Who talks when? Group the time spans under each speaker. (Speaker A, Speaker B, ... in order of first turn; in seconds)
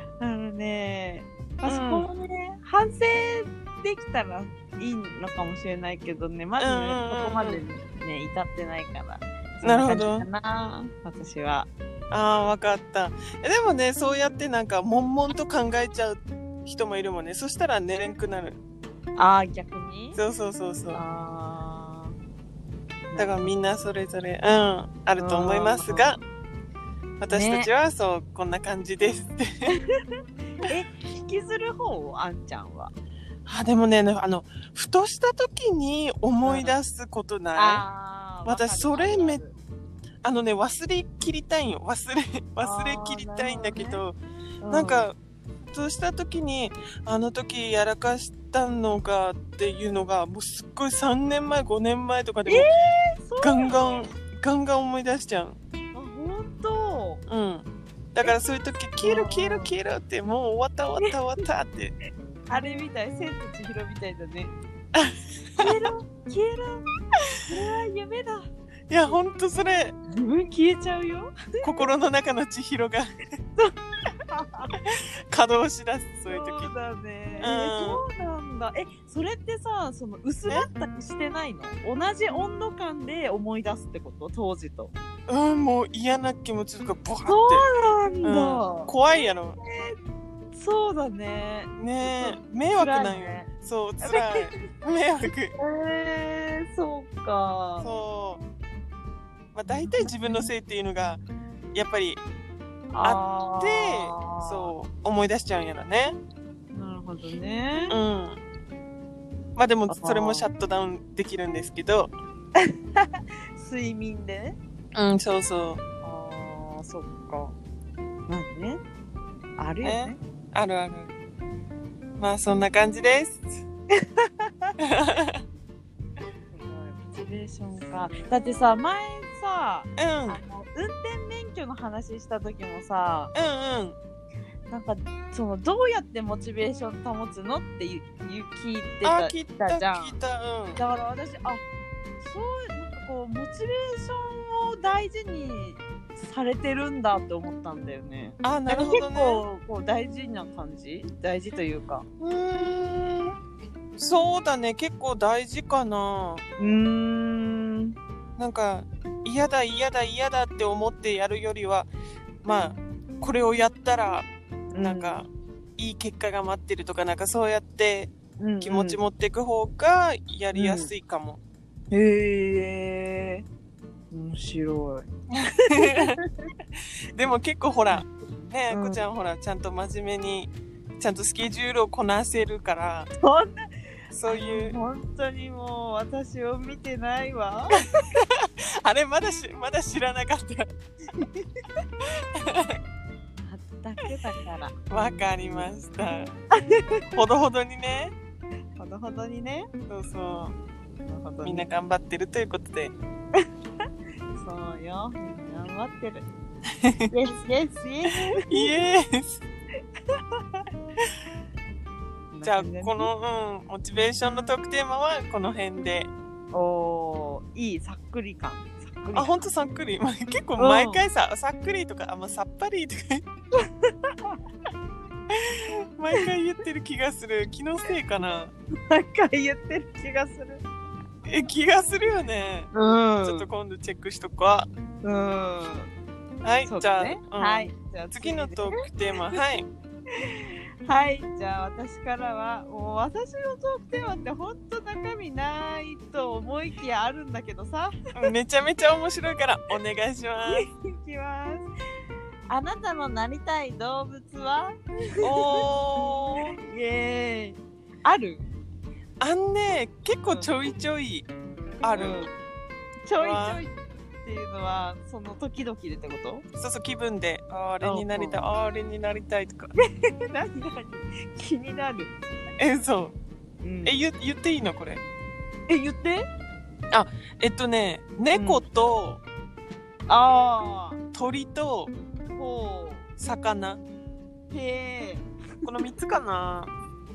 Speaker A: 0.2-11.7, 19.1-20.2, 20.9-22.1, 23.1-23.5, 25.2-26.1, 27.3-27.7, 30.6-32.9, 36.4-36.8, 37.5-39.5, 42.6-44.0, 44.6-45.1, 52.5-54.1, 55.9-57.2, 59.0-59.7, 62.5-64.5, 65.6-66.9, 67.4-68.5, 70.1-71.9, 74.3-75.0, 76.3-84.9, 87.2-90.0, 90.5-93.5, 94.0-94.5, 95.6-97.9, 99.7-100.5, 102.9-104.7, 106.7-108.0, 109.9-110.5, 112.6-114.5, 116.0-117.5, 118.3-118.8, 119.6-120.2, 124.2-124.7, 126.5-133.3, 134.7-140.1, 140.8-141.6, 142.2-152.1, 156.6-157.9, 164.7-165.2, 168.4-169.0, 170.5-170.9, 171.9-173.4, 174.1-175.1, 175.8-176.2, 178.7-179.0, 183.2-187.8, 191.1-191.5, 193.4-195.8, 196.5-196.9, 198.8-199.7, 201.1-201.7, 204.3-206.2, 207.1-208.4, 210.2-210.6, 212.3-213.1, 214.0-214.5, 216.5-219.4, 220.6-221.0, 223.6-224.4, 228.9-230.6, 232.7-233.5, 235.0-235.9, 236.7-238.8, 240.2-247.9, 250.5-251.7, 252.5-254.8, 256.4-258.5, 261.9-262.3, 263.0-266.4, 267.8-268.5, 270.1-272.1, 273.6-274.0, 275.7-276.2, 278.3-278.6, 280.1-281.0, 282.3-283.1, 284.5-285.3
Speaker B: 1.6-2.1, 6.6-7.6, 9.6-10.3, 12.1-18.6, 20.1-21.0, 23.2-26.2, 27.2-29.7, 33.5-37.8, 38.4-39.4, 40.2-44.2, 44.7-45.1, 45.7-52.7, 53.4-55.6, 57.3-61.9, 64.9-65.9, 68.9-70.0, 71.6-73.1, 75.3-76.7, 77.4-78.0, 85.3-87.7, 88.2-89.6, 91.8-95.5, 97.8-98.4, 99.5-101.2, 101.7-102.2, 103.0-106.2, 107.9-108.4, 109.5-112.1, 114.9-115.8, 119.8-121.1, 122.2-123.5, 124.8-125.4, 130.0-130.4, 133.3-133.9, 139.0-140.8, 148.4-149.4, 152.2-153.3, 154.0-156.4, 158.4-161.9, 162.4-171.4, 175.6-176.2, 177.1-183.1, 184.1-184.8, 188.4-190.7, 192.4-192.8, 194.9-196.3, 197.1-198.1, 199.9-200.5, 201.4-202.9, 208.4-209.4, 212.4-216.1, 219.1-223.2, 226.0-228.5, 231.2-232.7, 233.2-234.7, 236.4-239.7, 248.1-250.7, 255.2-256.5, 259.2-261.3, 261.8-262.2, 263.2-263.6, 266.6-269.7, 272.6-273.1, 273.8-275.0, 276.9-279.2, 281.1-281.9, 283.2-283.8, 285.6-286.7